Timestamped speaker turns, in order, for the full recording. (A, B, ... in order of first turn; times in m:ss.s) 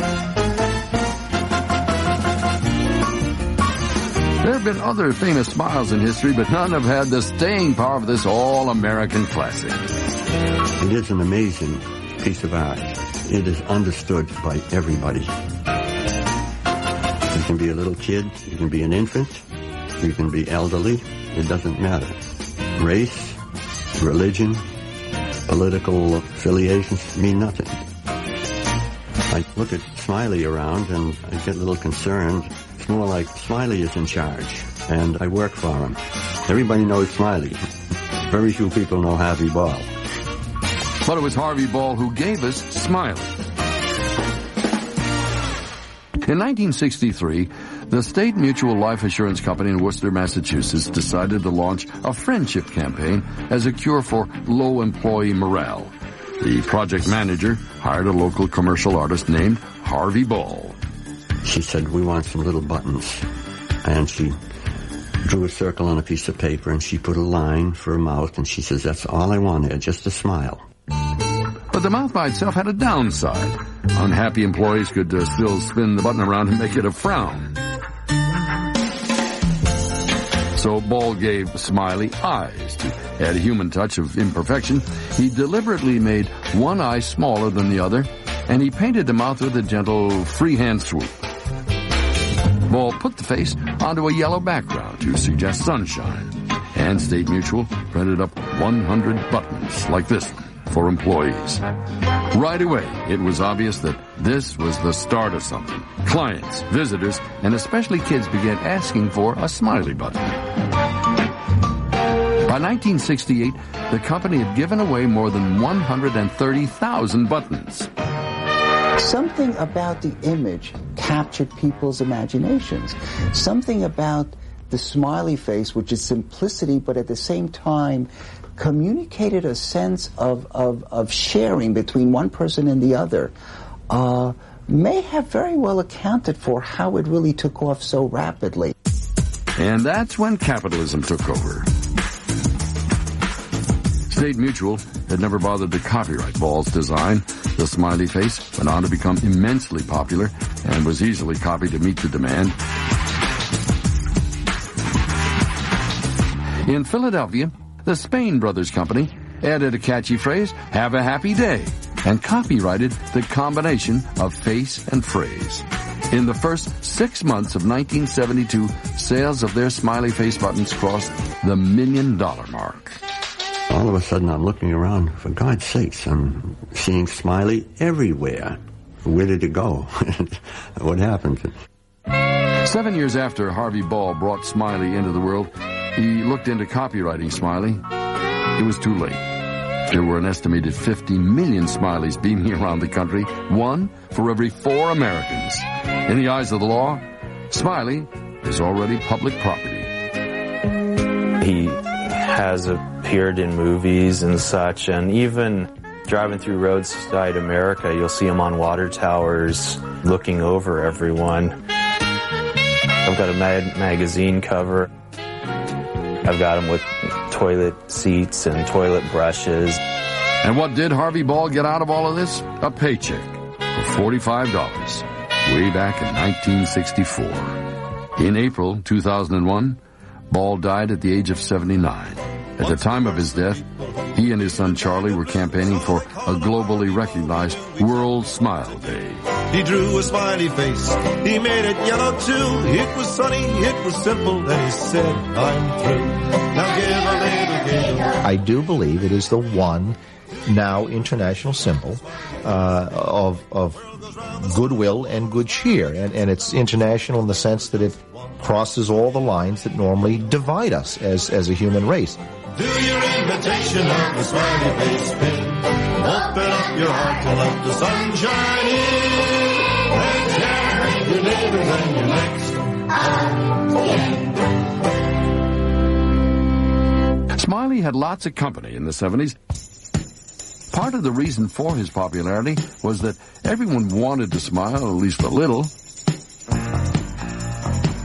0:04.4-0:09.9 A
0:10.8-0:15.4 B
0:17.3-0:19.4 B
0:20.0-0:22.2 B
0:22.7-0:23.4 B
0:24.0-0:24.6 B
0:25.4-0:27.8 B
0:29.3-0:39.9 B
0:41.0-0:43.3 A
0:46.2-1:00.8 A
1:01.4-1:03.3 B
1:03.8-1:04.4 B
1:05.2-1:10.6 B
1:11.7-1:17.6 A
1:20.5-1:31.1 A
1:32.6-1:41.6 A
1:42.3-1:50.4 A
1:52.4-1:57.9 A
1:59.0-2:13.3 C
2:13.9-2:18.7 C
2:19.6-2:21.7 A
2:24.1-2:32.6 A
2:36.6-2:53.0 A
2:53.7-3:01.5 B
3:02.6-3:07.8 A
3:08.6-3:09.2 A
3:09.9-3:19.9 A
3:21.4-3:31.6 D
3:33.0-3:34.9 D
3:36.2-3:39.8 D
3:40.4-3:47.6 A
3:48.2-3:53.6 A
3:52.6-3:58.0 E
3:54.1-3:59.2 A
3:59.5-4:08.2 E
4:08.2-4:13.9 F
4:14.4-4:22.2 F
4:22.5-4:32.6 E
4:37.4-4:39.4 A
4:40.7-4:45.7 A